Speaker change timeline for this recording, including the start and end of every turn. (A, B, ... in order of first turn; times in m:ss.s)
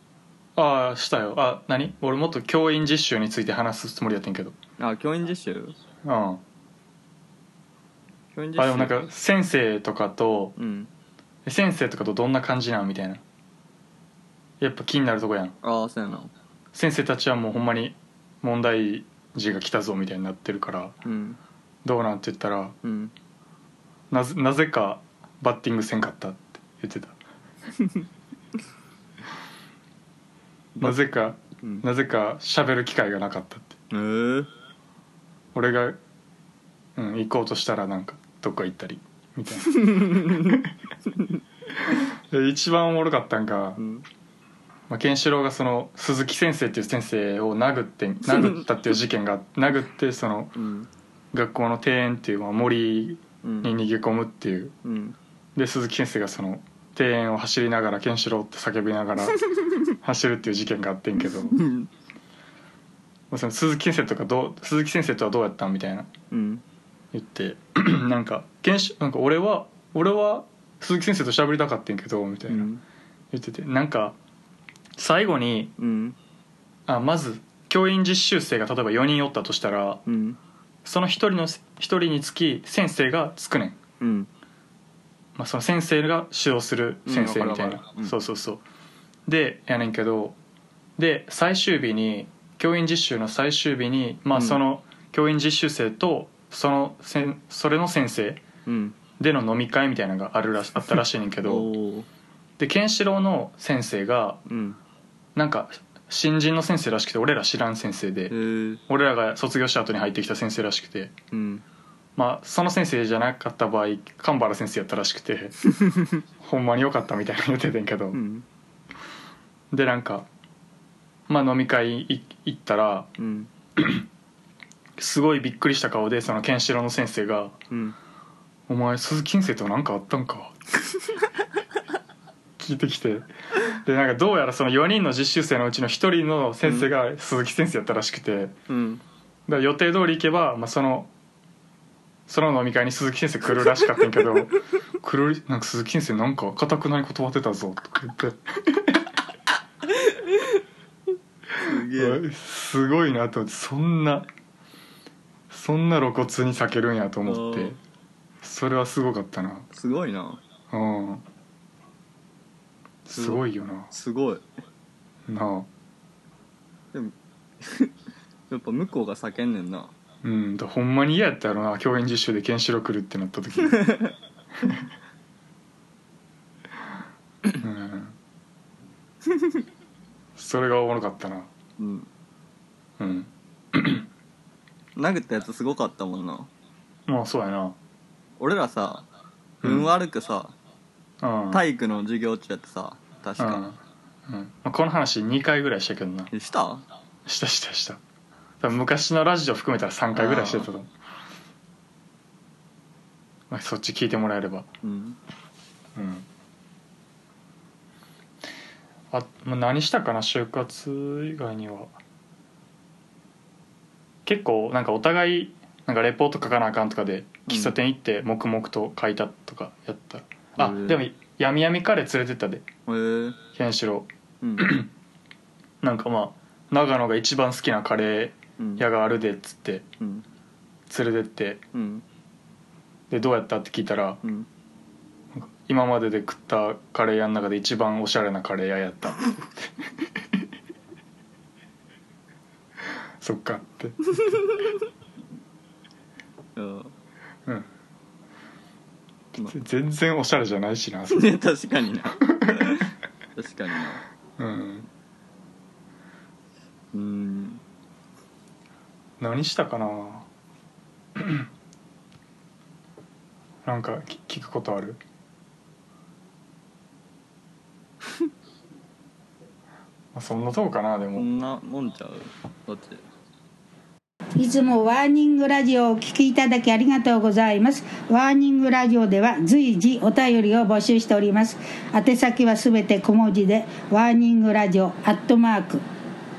0:00.6-0:04.6 A
0:04.8-0:05.8 B
0:06.0-0:06.4 A
0:08.3-0:09.0 B
0:08.6-0:10.5 A
0:10.6-0:10.9 B
0:11.4-0:13.2 A
0:14.6-0:15.6 A
0:15.6-0:16.3 B
0:16.7-0:21.0 A
0:21.0-0:21.4 B
0:21.8-0:22.8 A
0:22.8-0:23.1 B
0:24.1-0:27.2 A
0:30.8-0:33.8 A
0:31.6-0:31.8 B
0:33.9-0:34.5 B
0:35.5-0:36.0 A
0:37.0-0:40.7 A
0:39.6-0:40.6 B
0:41.9-0:43.8 A
0:43.8-0:44.0 B
0:44.9-0:50.6 A
0:48.3-0:48.7 B
0:50.5-0:50.9 B
0:51.3-0:54.8 A
0:53.4-0:53.7 B
0:54.8-0:55.2 B
0:55.5-0:59.4 A
1:00.0-1:01.6 A
1:01.5-1:01.9 B
1:03.3-1:06.1 A
1:06.3-1:06.6 B
1:07.1-1:12.7 A
1:12.5-1:12.8 B
1:13.3-1:14.2 A
1:15.0-1:15.7 A
1:15.8-1:16.2 B
1:16.9-1:20.0 A
1:20.1-1:20.4 B
1:20.8-1:23.8 A
1:24.0-1:24.3 B
1:25.4-1:28.6 A
1:27.0-1:28.2 B
1:29.2-1:30.4 A
1:31.0-1:38.4 A
1:34.3-1:34.6 B
1:38.6-1:39.0 B
1:39.2-1:41.7 A
1:41.4-1:42.1 B
1:42.6-1:44.4 A
1:44.5-1:44.8 B
1:45.3-1:48.3 A
1:48.3-1:48.8 B
1:48.9-1:51.1 A
1:51.3-1:51.6 B
1:52.2-1:55.6 A
1:55.7-1:56.2 B
1:56.4-1:58.2 A
1:58.1-1:58.4 B
1:59.7-2:00.3 A
2:01.3-2:03.1 A
2:03.2-2:03.5 B
2:03.8-2:04.0 A
2:05.0-2:07.5 A
2:07.7-2:08.0 B
2:08.7-2:10.6 A
2:12.6-2:18.6 A
2:16.6-2:16.9 B
2:18.7-2:19.0 B
2:19.5-2:21.1 A
2:22.3-2:29.0 A
2:30.0-2:30.4 B
2:31.6-2:32.2 B
2:31.6-2:34.3 A
2:35.5-2:37.8 A
2:37.2-2:37.8 B
2:38.4-2:39.7 A
2:39.7-2:40.4 B
2:40.7-2:41.2 A
2:43.0-2:43.9 A
2:43.1-2:44.4 B
2:45.3-2:45.7 A
2:46.9-2:47.9 B
2:48.5-2:49.9 B
2:50.2-2:54.0 A
2:53.7-2:54.1 B
2:57.6-2:58.2 A
3:00.4-3:01.5 A
3:01.8-3:02.1 B
3:03.0-3:04.1 A
3:05.0-3:06.5 B
3:07.1-3:07.8 A
3:08.4-3:09.0 B
3:09.6-3:09.9 A
3:09.6-3:10.6 B
3:11.2-3:11.6 A
3:11.5-3:13.6 B
3:13.4-3:16.3 A
3:16.3-3:16.8 B
3:17.2-3:18.0 A
3:18.6-3:20.9 A
3:20.1-3:20.7 B
3:23.5-3:24.7 A
3:24.8-3:25.2 B
3:26.0-3:26.2 A
3:29.1-3:31.9 A
3:34.2-3:42.7 A
3:37.5-3:37.7 B
3:40.6-3:41.0 B
3:42.9-3:43.4 B
3:43.5-3:44.9 A
3:44.4-3:44.8 B
3:45.8-3:49.9 A
3:48.6-3:48.8 B
3:50.0-3:50.2 B
3:50.9-3:51.6 A
3:51.7-3:52.0 B
3:53.1-3:54.2 A
3:55.3-4:00.4 A
4:03.2-4:04.1 A
4:04.1-4:04.7 B
4:06.6-4:06.9 B
4:09.5-4:11.4 A
4:11.1-4:14.0 B
4:12.3-4:12.8 A
4:14.4-4:14.9 A
4:16.9-4:17.6 B
4:19.2-4:20.3 A
4:21.2-4:21.5 A
4:23.6-4:25.0 A
4:30.1-4:31.3 A
4:31.1-4:33.0 B
4:34.4-4:45.8 C